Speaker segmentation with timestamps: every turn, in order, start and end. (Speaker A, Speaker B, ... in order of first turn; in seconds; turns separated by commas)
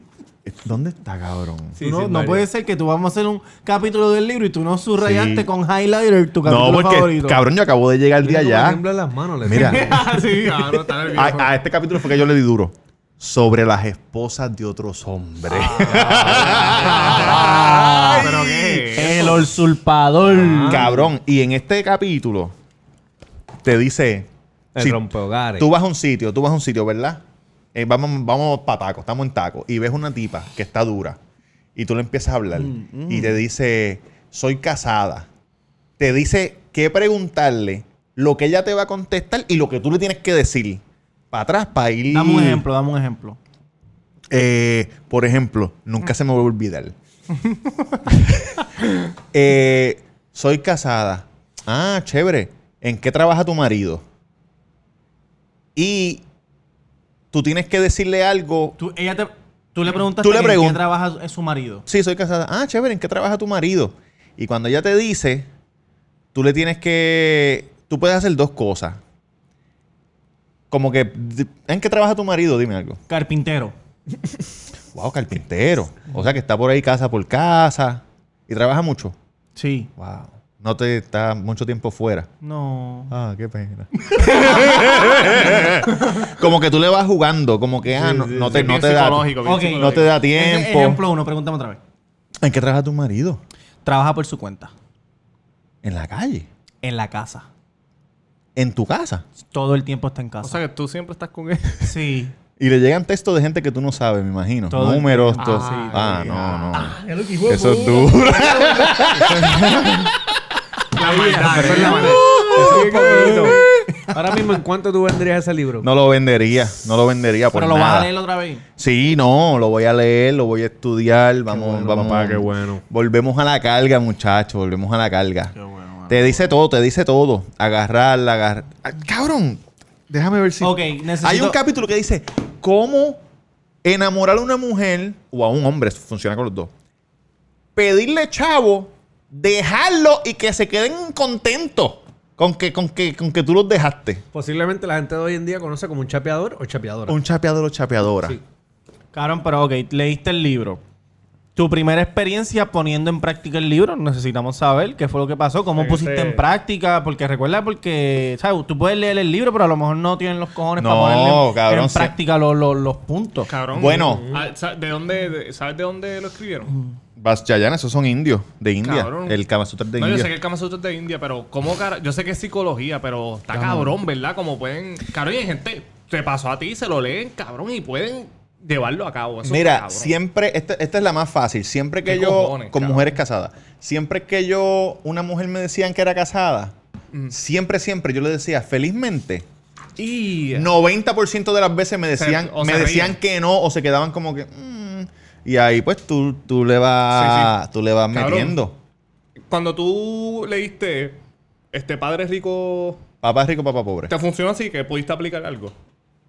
Speaker A: 0.4-1.8, Speaker B: 1.8-2.5, Speaker C: 1.8-7.4, Speaker A: 5.0-5.5, Speaker A: 6.4-8.8, Speaker B: 8.2-10.0, Speaker A: 9.4-10.0, Speaker D: 9.8-11.5, Speaker C: 9.8-10.8, Speaker A: 11.1-19.1, Speaker C: 15.6-18.3, Speaker D: 16.5-17.6, Speaker D: 18.2-19.4, Speaker C: 18.9-20.8, Speaker B: 20.4-21.1, Speaker A: 20.7-22.5, Speaker A: 23.6-25.0, Speaker B: 24.7-25.7, Speaker A: 25.6-27.2, Speaker A: 27.7-31.2, Speaker A: 31.8-35.3, Speaker C: 32.5-33.4, Speaker A: 36.0-42.6, Speaker C: 42.1-43.4, Speaker A: 44.3-46.9, Speaker A: 48.1-48.6, Speaker A: 49.3-54.0, Speaker A: 55.8-56.2, Speaker A: 57.3-58.8, Speaker C: 58.8-61.8, Speaker A: 60.0-60.8, Speaker A: 61.9-65.5, Speaker A: 66.3-69.0, Speaker A: 70.7-73.0, Speaker C: 73.1-73.7, Speaker A: 74.9-79.2, Speaker C: 79.6-79.9, Speaker A: 80.0-82.3, Speaker C: 82.4-83.1, Speaker A: 83.1-91.0, Speaker B: 87.9-88.8, Speaker D: 88.5-90.1, Speaker C: 89.4-91.8, Speaker A: 92.4-93.4, Speaker C: 93.8-94.7, Speaker A: 95.8-96.5, Speaker C: 96.8-97.5, Speaker A: 98.5-99.2, Speaker C: 99.5-100.6, Speaker D: 100.4-101.9, Speaker C: 101.8-102.3, Speaker A: 102.6-110.3, Speaker C: 104.7-106.6, Speaker D: 105.4-106.7, Speaker B: 107.0-108.2, Speaker C: 107.1-107.9, Speaker D: 111.0-112.2, Speaker C: 111.0-113.6, Speaker B: 111.3-113.6, Speaker A: 112.2-114.1, Speaker B: 114.1-115.9, Speaker A: 115.8-118.1, Speaker C: 117.5-118.6, Speaker A: 118.8-125.5, Speaker B: 121.5-122.8, Speaker C: 125.5-126.5, Speaker A: 126.1-133.2, Speaker C: 130.6-131.6, Speaker A: 133.8-136.7, Speaker A: 137.7-144.2, Speaker B: 144.3-147.2, Speaker A: 147.1-148.4, Speaker C: 149.1-150.8, Speaker C: 151.6-163.5, Speaker B: 155.8-156.4, Speaker A: 160.8-162.2, Speaker D: 163.5-166.7, Speaker A: 163.7-164.3, Speaker B: 164.1-164.4, Speaker A: 167.2-170.3, Speaker D: 168.8-169.4, Speaker D: 170.0-180.1, Speaker A: 173.5-173.9, Speaker A: 179.4-186.7, Speaker D: 182.0-183.1, Speaker A: 187.3-189.4, Speaker D: 190.0-190.7, Speaker A: 190.5-198.8, Speaker D: 192.2-193.2, Speaker D: 197.1-197.5, Speaker D: 198.1-198.6, Speaker D: 199.5-201.2, Speaker D: 201.7-203.0, Speaker A: 203.2-204.1, Speaker D: 204.1-205.7